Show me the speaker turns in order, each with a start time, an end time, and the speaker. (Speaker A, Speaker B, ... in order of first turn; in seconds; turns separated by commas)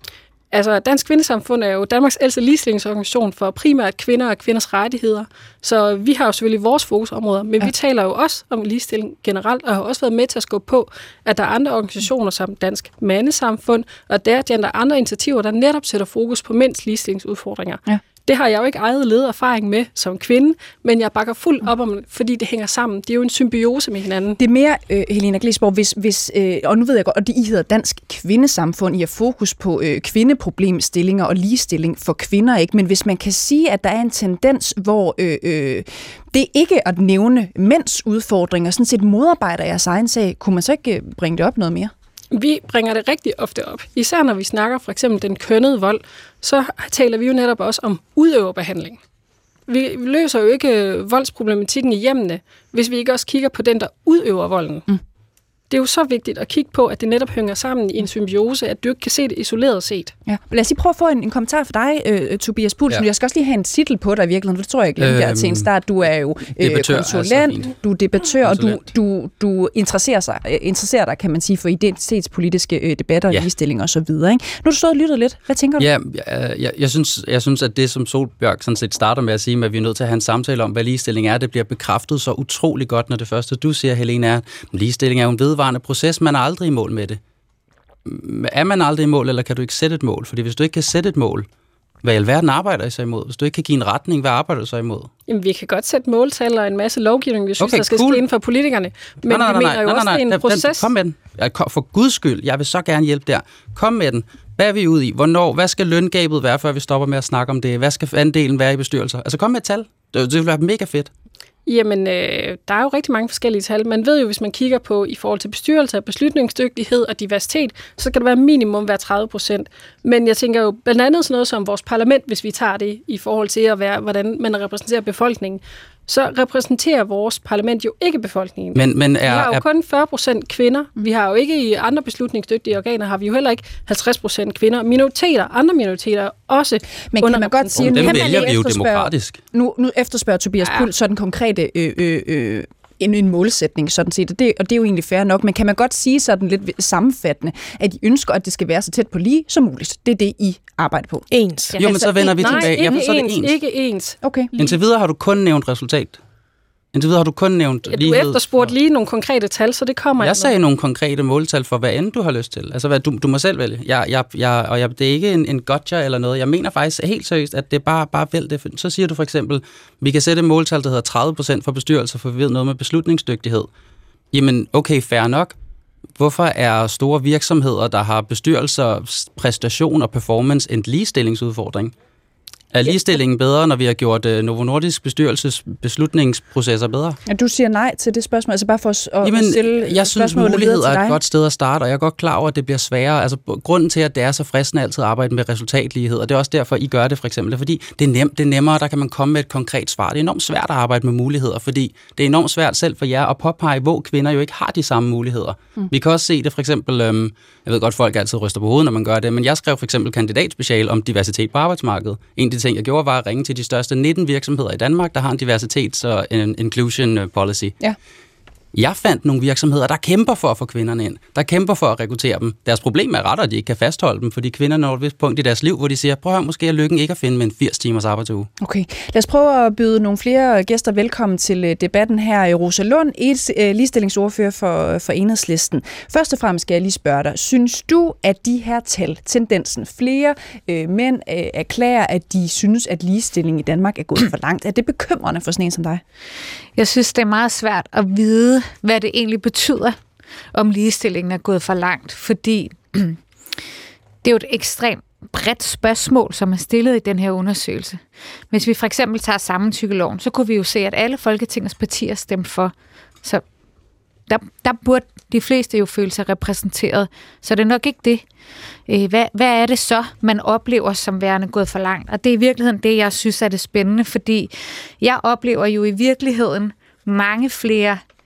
Speaker A: 0.5-24.4, Speaker B: 24.4-41.9, Speaker A: 42.3-49.0, Speaker A: 49.7-54.9, Speaker A: 55.7-60.1, Speaker B: 60.3-75.9, Speaker C: 65.0-65.7, Speaker C: 66.6-67.8, Speaker C: 68.4-68.8, Speaker C: 75.8-87.2, Speaker C: 88.1-91.5, Speaker C: 92.0-95.1, Speaker A: 95.3-100.9, Speaker C: 97.6-98.2, Speaker C: 99.3-111.1, Speaker A: 111.7-138.6, Speaker C: 128.8-129.6, Speaker B: 137.1-151.2, Speaker C: 137.7-139.4, Speaker D: 138.0-138.5, Speaker D: 151.3-152.7, Speaker A: 151.7-154.8, Speaker C: 151.8-153.5, Speaker B: 154.2-154.5, Speaker C: 154.6-156.2, Speaker C: 156.9-158.7, Speaker A: 157.9-160.5, Speaker C: 160.2-173.7, Speaker C: 174.3-175.6, Speaker C: 176.2-181.9, Speaker C: 182.7-187.2, Speaker B: 187.3-191.2, Speaker C: 189.2-217.8, Speaker C: 218.7-228.5, Speaker B: 228.6-246.0, Speaker E: 246.8-250.0, Speaker E: 250.5-253.2, Speaker E: 254.2-263.4, Speaker E: 264.3-268.2, Speaker E: 268.9-278.0